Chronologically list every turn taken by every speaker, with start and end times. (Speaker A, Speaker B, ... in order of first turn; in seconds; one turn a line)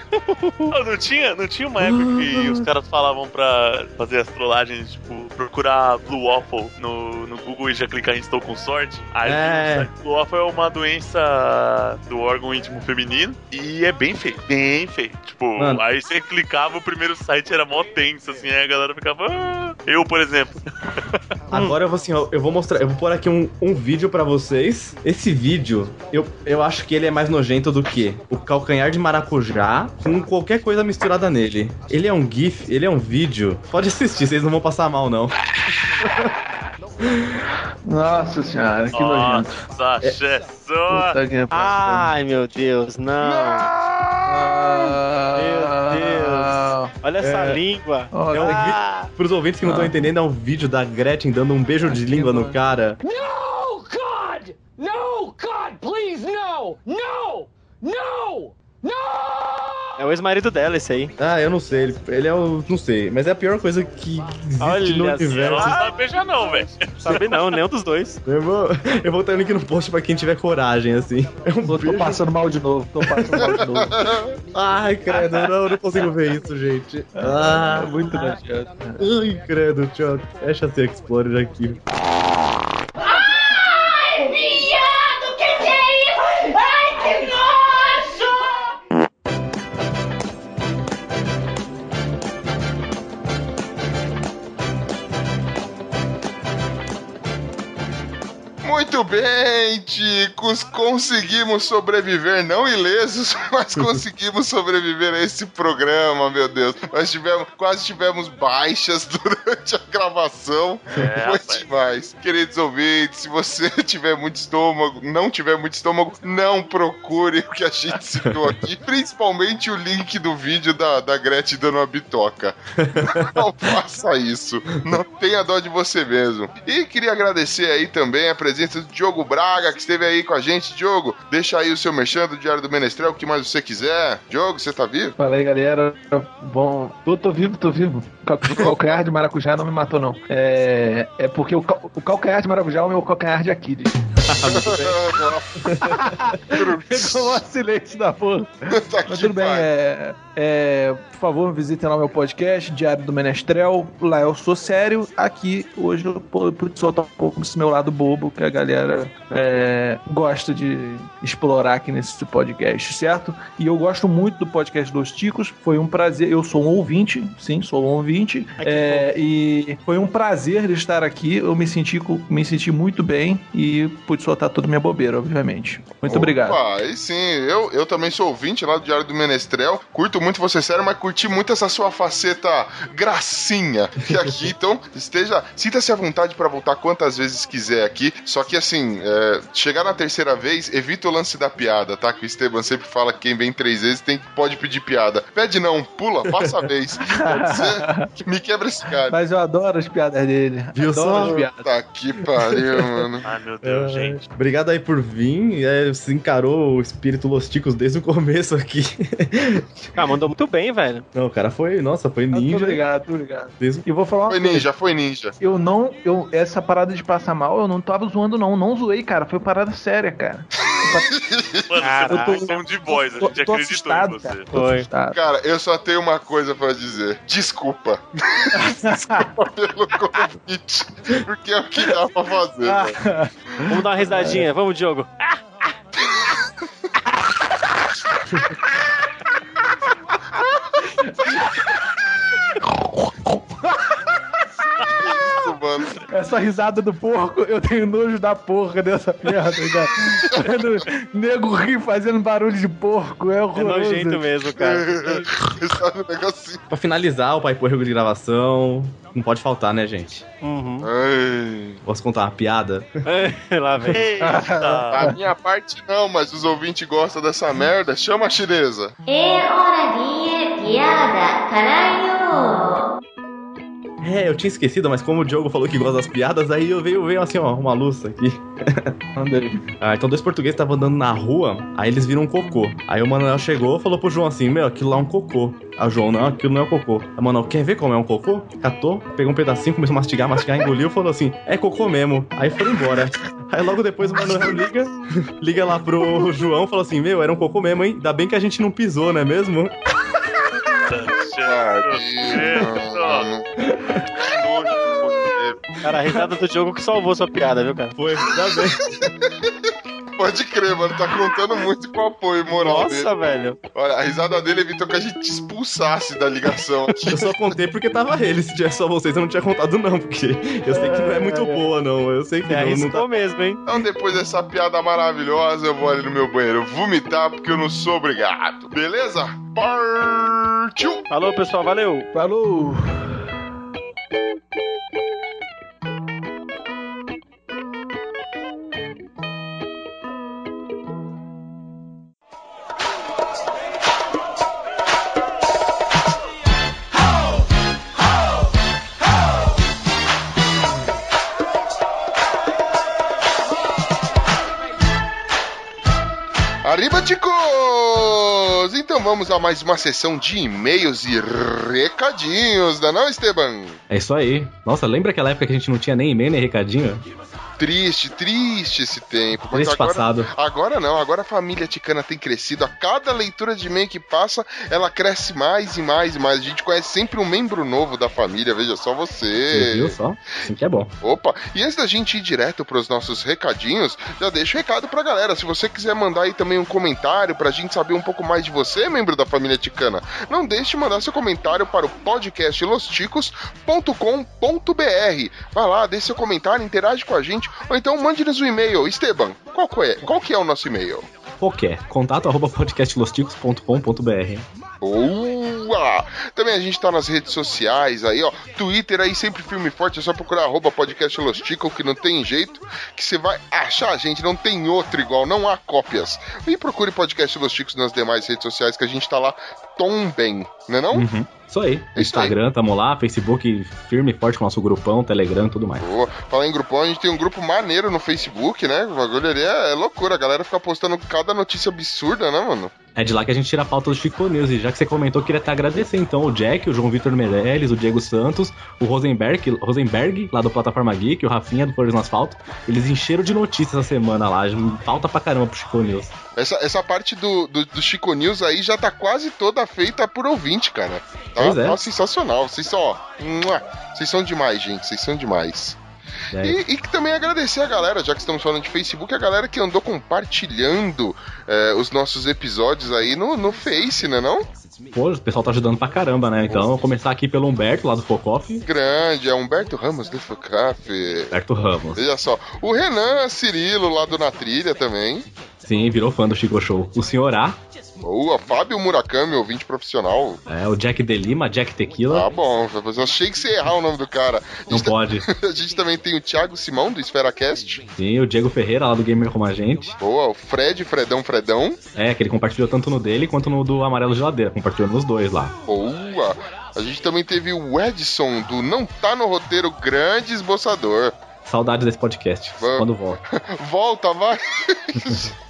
Speaker A: 0.1-0.7
Speaker B: 0.7-21.1
Speaker C: 1.8-2.7
Speaker C: 9.2-9.9
Speaker C: 15.6-15.8
Speaker C: 21.5-35.4
Speaker D: 37.9-39.5
Speaker B: 38.9-41.2
Speaker D: 40.9-42.1
Speaker A: 41.5-43.7
Speaker D: 43.4-46.9
Speaker A: 45.3-49.1
Speaker C: 47.2-47.6
Speaker D: 48.1-48.8
Speaker C: 48.3-53.0
Speaker D: 49.6-49.9
Speaker D: 51.8-52.6
Speaker E: 53.0-60.0
Speaker A: 60.0-61.1
Speaker C: 61.2-65.9
Speaker A: 64.6-65.8
Speaker B: 65.3-67.2
Speaker A: 67.0-68.2
Speaker C: 68.2-72.2
Speaker D: 71.7-74.0
Speaker C: 73.0-73.5
Speaker F: 73.4-74.3
Speaker C: 74.5-78.4
Speaker D: 77.2-79.0
Speaker C: 79.0-81.8
Speaker G: 83.0-88.7
Speaker F: 98.6-135.1
Speaker B: 110.9-111.7
Speaker C: 122.8-123.3
Speaker D: 135.2-144.0
Speaker F: 138.5-138.8
Speaker C: 144.2-145.0
Speaker F: 144.5-145.7
Speaker C: 145.6-146.0
Speaker D: 145.8-176.6
Speaker F: 146.5-147.4
Speaker F: 148.7-149.7
Speaker C: 168.6-169.1
Speaker F: 176.1-199.1
Speaker C: 184.1-184.5
Speaker D: 197.1-198.1
Speaker D: 199.1-201.7
Speaker C: 200.7-201.4
Speaker F: 201.6-203.2
Speaker B: 203.2-204.3
Speaker C: 203.6-209.9
Speaker A: 209.9-211.1
Speaker C: 211.1-212.8
Speaker D: 212.3-214.7
Speaker C: 213.6-213.9
Speaker F: 214.3-215.4
Speaker D: 215.4-221.1
Speaker F: 220.6-221.7
Speaker B: 221.7-224.5
Speaker A: 221.8-222.4
Speaker D: 222.1-225.2
Speaker A: 224.5-224.9
Speaker F: 225.1-233.0
Speaker D: 228.5-229.2
Speaker D: 232.7-234.4
Speaker A: 233.7-235.3
Speaker D: 240.8-241.6
Speaker D: 242.6-244.0
Speaker F: 244.8-246.0
Speaker D: 245.9-254.3
Speaker F: 250.0-250.7
Speaker A: 253.6-255.3
Speaker F: 254.5-256.6
Speaker C: 256.7-260.2
Speaker A: 260.4-260.9
Speaker F: 260.8-261.8
Speaker C: 261.9-263.0
Speaker A: 263.1-264.1
Speaker B: 263.9-265.1
Speaker D: 264.2-265.2
Speaker F: 264.9-268.9
Speaker G: 269.1-272.9
Speaker C: 274.0-278.9
Speaker D: 279.1-279.6
Speaker C: 279.8-300.1
Speaker B: 300.9-303.3
Speaker F: 301.4-303.5
Speaker C: 303.7-304.0
Speaker F: 304.2-305.6
Speaker A: 305.8-307.9
Speaker C: 307.9-308.8
Speaker F: 308.9-309.2
Speaker F: 310.2-313.1
Speaker A: 312.5-313.6
Speaker F: 313.7-317.4
Speaker C: 317.1-323.1
Speaker A: 320.7-321.6
Speaker A: 322.4-323.6
Speaker F: 323.7-331.1
Speaker A: 331.1-332.1
Speaker D: 332.1-333.1
Speaker F: 356.6-363.8
Speaker C: 363.9-367.1
Speaker F: 367.6-379.9
Speaker C: 369.5-370.3
Speaker C: 379.5-380.9
Speaker F: 381.0-401.1
Speaker C: 401.4-404.5
Speaker F: 404.8-421.1
Speaker C: 420.9-425.8
Speaker F: 421.9-422.3
Speaker F: 425.8-432.7
Speaker C: 432.9-446.1
Speaker F: 446.4-455.8
Speaker C: 451.4-451.8
Speaker C: 456.3-456.6
Speaker F: 456.4-464.5
Speaker C: 464.9-468.6
Speaker F: 468.7-471.3
Speaker C: 471.3-472.0
Speaker F: 472.0-475.3
Speaker C: 475.6-477.6
Speaker F: 478.0-480.4
Speaker C: 480.5-482.3
Speaker F: 482.1-487.8
Speaker C: 484.7-485.2
Speaker C: 488.0-490.0
Speaker F: 490.0-491.8
Speaker C: 492.0-495.5
Speaker F: 495.7-501.2
Speaker C: 501.5-503.2
Speaker F: 502.6-505.3
Speaker C: 505.0-505.3